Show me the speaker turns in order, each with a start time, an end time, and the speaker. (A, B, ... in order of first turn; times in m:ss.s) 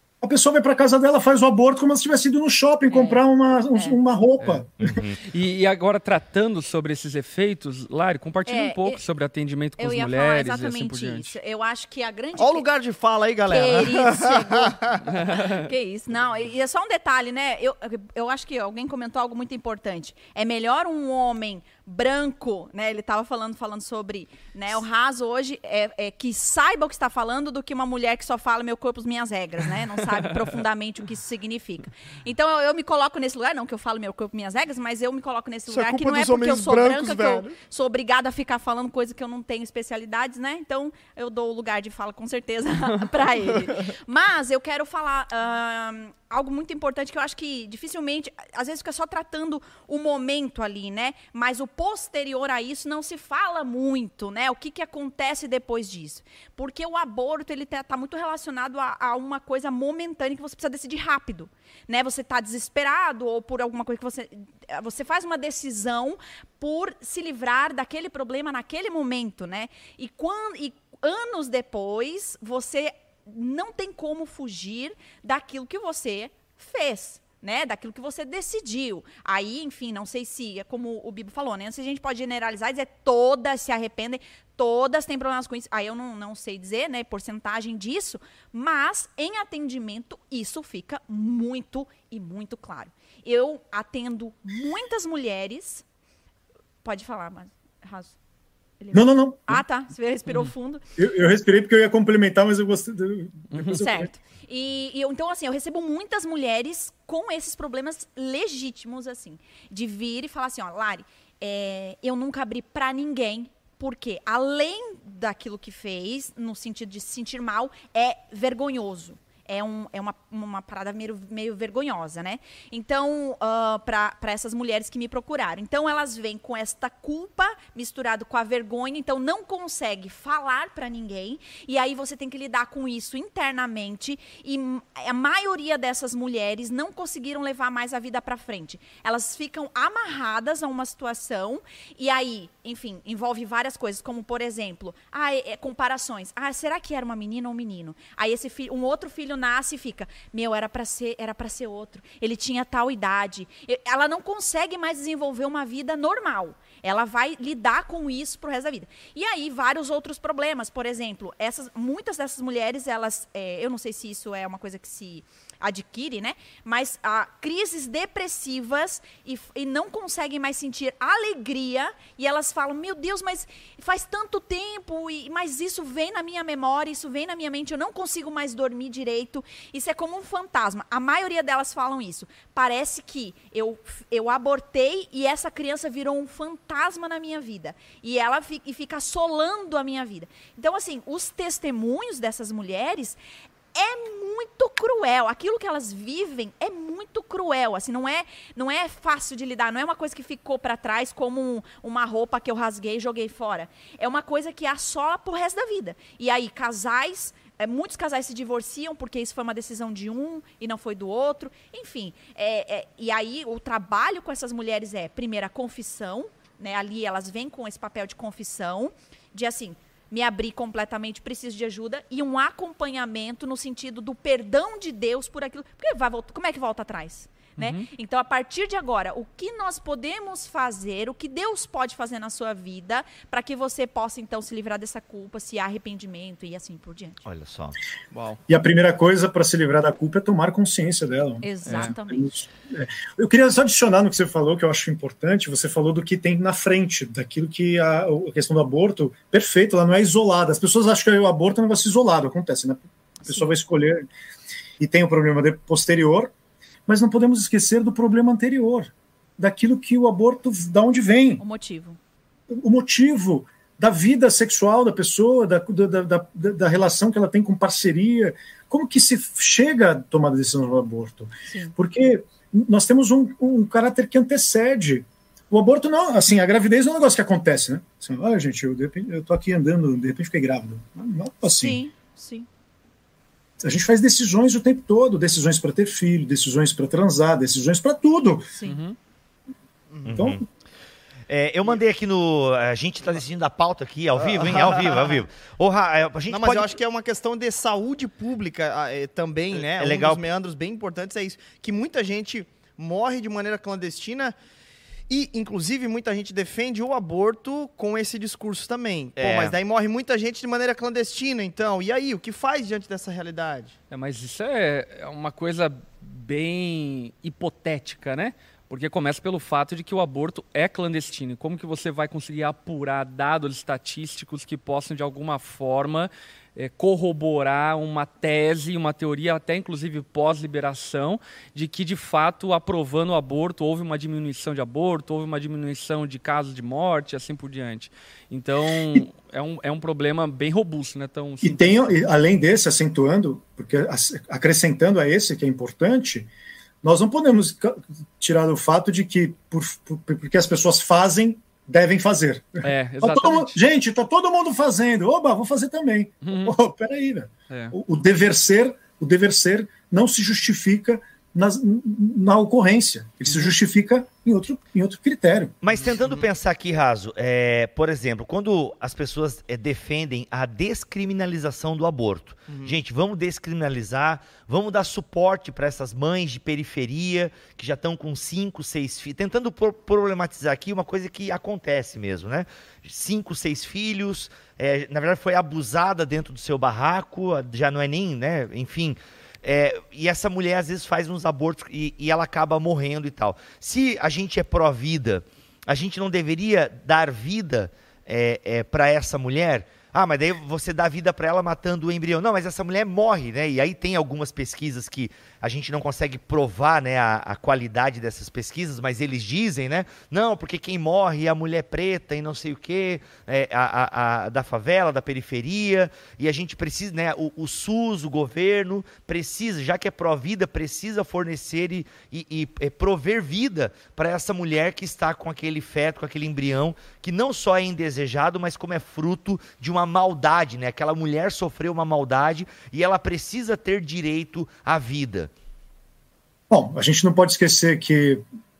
0:00.2-0:04.7 A
0:02.9-0:03.2 B
0:04.4-0:11.4 C
0:04.8-0:05.2 D
0:08.4-0:09.0 B
0:09.8-0:12.6 B
0:12.4-0:15.0 E
0:13.4-1:35.8 B
0:15.1-0:15.6 C
0:35.7-0:37.6 E
1:36.8-1:38.1 B
1:38.8-1:40.8 B
1:38.9-1:39.6 A
1:40.2-1:40.5 C
1:41.0-1:44.1 A
1:43.5-1:43.8 C
1:43.6-3:13.2 B
3:13.7-3:57.2 B
3:47.6-3:47.9 C
3:57.2-3:57.8 D
3:58.1-3:58.4 C
3:58.5-4:14.0 A
4:01.4-4:02.3 B
4:01.6-4:02.0 C
4:13.2-4:13.5 B
4:14.8-4:16.3 A
4:16.9-4:21.4 A
4:21.4-4:22.0 B
4:22.5-4:41.8 A
4:31.5-4:31.7 B
4:41.5-4:42.5 B
4:43.6-4:48.5 A
4:48.5-4:48.8 B
4:48.6-4:49.0 C
4:49.9-4:50.2 E
4:50.0-4:50.4 D
4:50.1-4:50.4 A
4:51.3-4:56.8 D
4:54.2-4:55.2 E
4:56.3-5:04.3 E
4:59.5-5:00.2 D
5:05.1-5:13.7 E
5:09.2-5:09.6 D
5:13.9-5:42.0 C
5:41.4-5:46.3 A
5:46.8-6:05.5 A
5:52.6-5:53.6 C
5:56.2-5:56.6 C
5:57.5-5:57.8 C
6:03.2-6:03.5 C
6:05.6-7:15.3 D
6:12.5-6:12.8 E
7:16.5-7:18.2 A